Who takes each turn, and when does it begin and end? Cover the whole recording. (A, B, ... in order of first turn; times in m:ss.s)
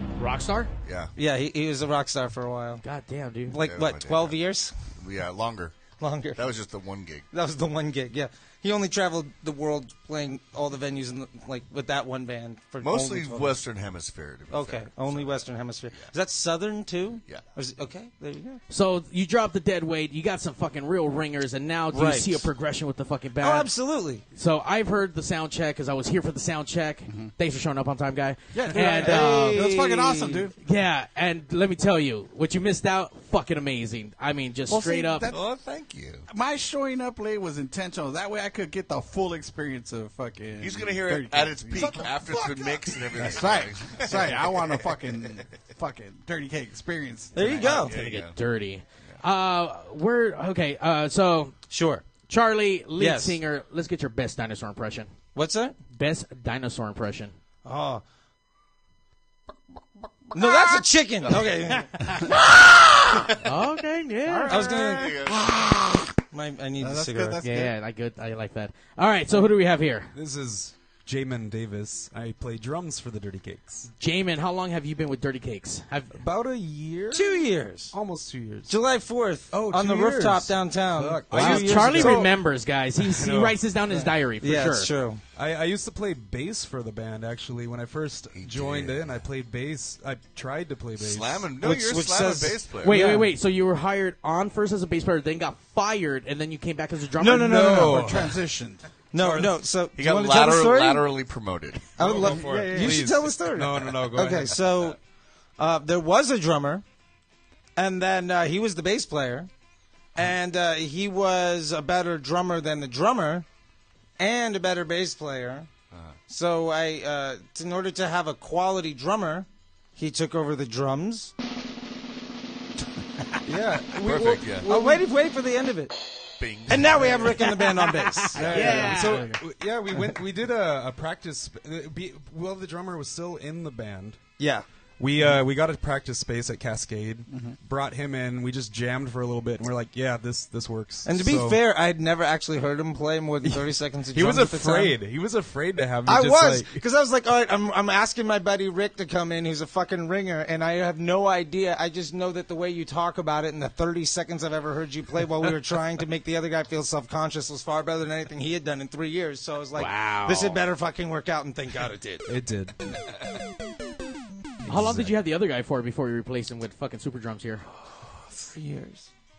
0:00.2-0:00.7 A
0:00.8-0:01.1 B
0:01.2-0:02.8 C
0:02.8-0:03.6 A
0:03.5-0:04.7 C
0:03.6-0:04.4 B
0:05.0-0:07.3 B
0:06.0-0:06.4 C
0:07.3-0:13.6 C
0:12.8-0:16.1 B
0:14.5-0:18.6 C
0:18.7-0:23.7 A
0:21.9-0:22.5 C
0:23.4-0:24.2 C
0:24.3-0:29.7 A
0:27.1-0:27.3 D
0:28.5-0:30.5 D
0:28.8-0:30.5 C
0:30.6-0:35.3 A
0:34.7-0:35.4 D
0:35.3-0:36.3 B
0:36.3-0:47.7 D
0:40.6-0:45.0 B
0:47.3-0:47.9 C
0:47.3-0:51.6 A
0:47.6-0:48.4 B
0:51.7-0:52.0 C
0:52.3-0:55.1 A
0:53.0-0:53.4 C
0:55.3-0:55.8 C
0:55.9-0:57.3 A
0:57.6-0:58.0 C
1:00.3-1:02.9 C
1:03.3-1:04.8 A
1:04.2-1:05.1 D
1:04.5-1:05.3 C
1:04.8-1:05.5 B
1:06.3-1:07.4 C
1:06.8-1:07.7 D
1:07.4-1:10.1 A
1:10.1-1:13.9 E
1:14.0-1:16.2 A
1:16.1-1:18.8 E
1:17.1-1:17.9 C
1:18.7-1:22.3 C
1:19.5-1:22.3 E
1:21.3-1:24.9 A
1:23.0-1:23.6 E
1:23.9-1:25.2 C
1:25.4-1:31.5 E
1:28.3-1:29.2 B
1:31.0-1:33.0 B
1:31.6-1:33.3 C
1:32.8-1:37.7 A
1:37.2-1:38.2 C
1:37.4-1:38.3 E
1:37.5-1:38.8 D
1:39.1-1:41.1 C
1:39.2-1:39.5 E
1:39.9-1:42.8 B
1:42.0-1:45.0 C
1:42.0-1:44.6 E
1:42.4-1:43.0 D
1:45.6-1:46.8 C
1:47.8-1:49.5 C
1:50.1-1:53.4 C
1:54.2-1:55.7 C
1:55.9-1:56.2 B
1:56.3-2:01.3 C
2:03.4-2:06.0 C
2:04.0-2:04.7 B
2:06.4-2:07.3 B
2:06.7-2:09.0 C
2:08.3-2:09.4 D
2:08.4-2:14.2 E
2:08.4-2:09.2 A
2:14.4-2:14.6 C
2:15.0-2:21.6 E
2:15.2-2:15.4 D
2:17.3-2:17.6 D
2:21.0-2:25.0 C
2:23.4-2:26.8 E
2:26.0-2:42.2 C
2:39.8-2:40.6 A
2:42.2-2:42.9 E
2:44.6-2:45.1 E
2:44.7-2:47.6 A
2:48.4-2:49.1 C